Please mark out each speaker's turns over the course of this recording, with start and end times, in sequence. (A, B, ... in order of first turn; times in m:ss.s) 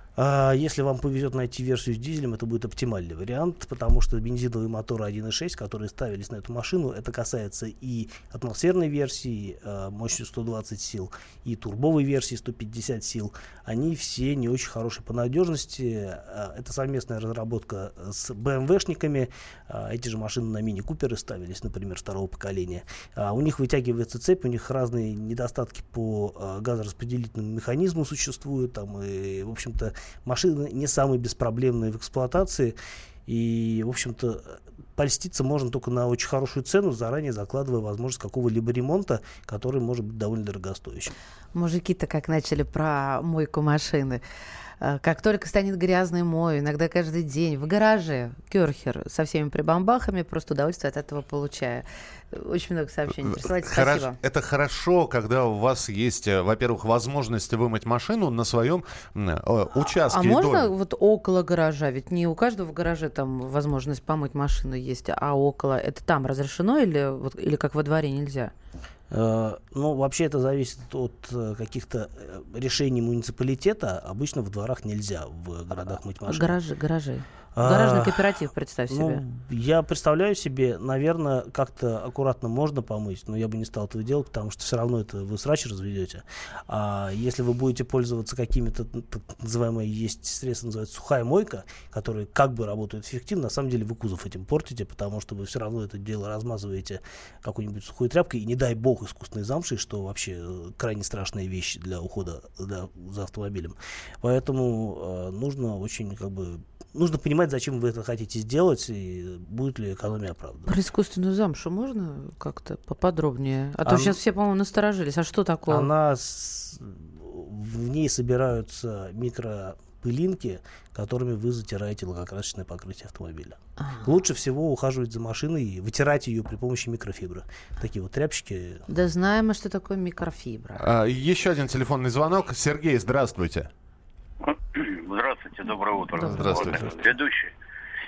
0:00.2-0:41.1 A
0:41.6-0:44.2 B
0:44.8-0:54.2 B
0:53.3-1:00.7 C
0:59.8-1:08.5 B
1:09.1-1:16.6 A
1:16.3-1:19.2 B
1:17.6-1:18.2 A
1:18.9-1:50.7 A
1:50.7-1:55.9 B
1:53.9-1:54.2 A
1:55.7-2:08.8 A
2:03.8-2:04.0 B
2:08.9-2:10.9 B
2:10.8-2:13.7 C
2:14.5-2:17.5 D
2:16.2-2:16.9 C
2:16.2-2:16.6 B